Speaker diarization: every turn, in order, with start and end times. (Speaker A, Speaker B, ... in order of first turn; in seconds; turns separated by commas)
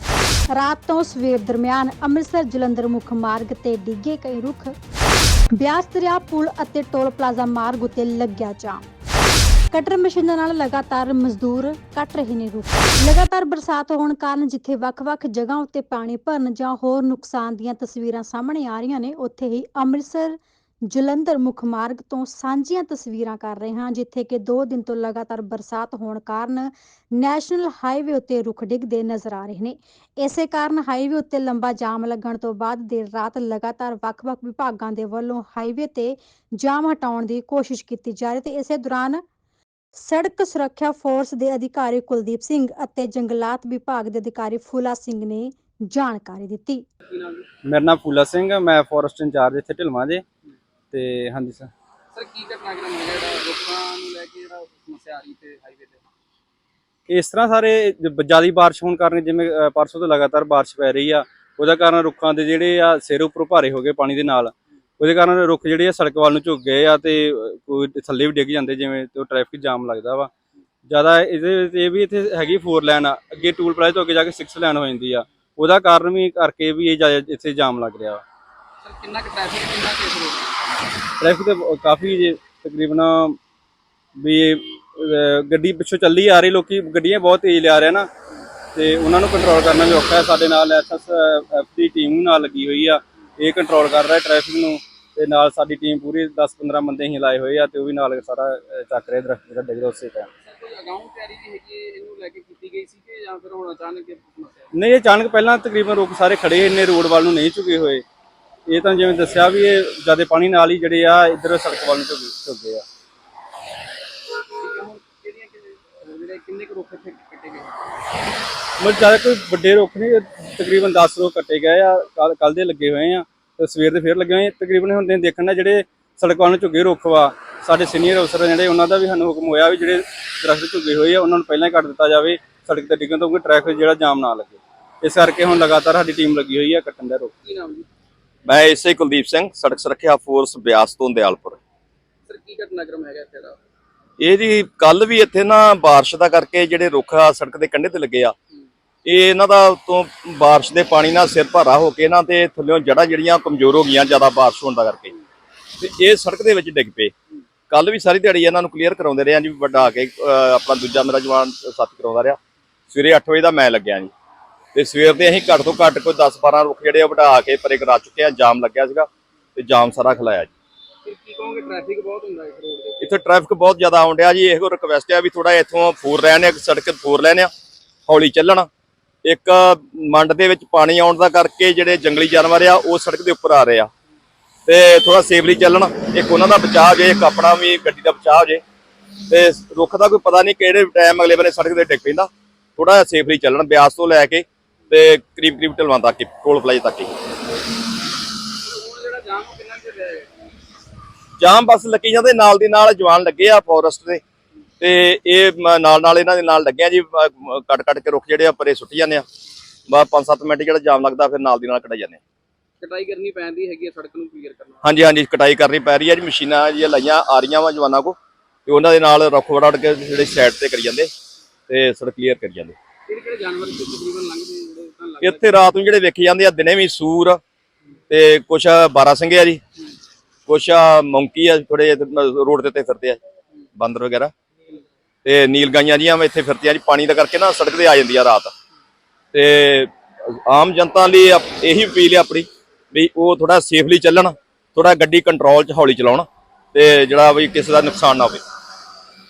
Speaker A: 0.5-4.7, Speaker A: 5.5-8.8, Speaker A: 9.7-39.2, Speaker A: 39.9-46.8, Speaker B: 47.1-47.5, Speaker C: 47.6-50.2, Speaker C: 50.9-51.7, Speaker B: 52.1-56.0, Speaker C: 57.1-70.3, Speaker C: 70.9-78.2, Speaker B: 78.8-80.6, Speaker C: 81.2-83.4, Speaker C: 84.2-88.1, Speaker C: 88.7-100.3, Speaker B: 100.4-104.7, Speaker C: 104.7-108.0, Speaker C: 108.7-112.8, Speaker B: 114.5-117.8, Speaker C: 118.8-137.3, Speaker B: 137.4-137.9, Speaker D: 138.5-141.6, Speaker B: 142.2-143.6, Speaker D: 144.2-148.3, Speaker D: 149.1-155.1, Speaker D: 155.8-157.1, Speaker D: 157.7-162.4, Speaker D: 162.9-164.1, Speaker D: 164.7-170.5, Speaker B: 171.0-173.1, Speaker D: 173.0-177.5, Speaker D: 178.1-178.7, Speaker D: 179.2-183.9, Speaker D: 184.7-188.6, Speaker D: 189.3-197.1, Speaker B: 198.4-200.3, Speaker D: 201.4-204.2, Speaker D: 204.8-209.2, Speaker D: 209.9-212.2, Speaker B: 212.8-214.8, Speaker D: 214.8-221.1, Speaker D: 221.7-222.7, Speaker B: 223.1-225.5, Speaker D: 225.2-227.4, Speaker D: 228.1-229.6, Speaker D: 230.5-233.2, Speaker D: 233.8-234.3, Speaker D: 235.2-238.5, Speaker D: 239.3-248.4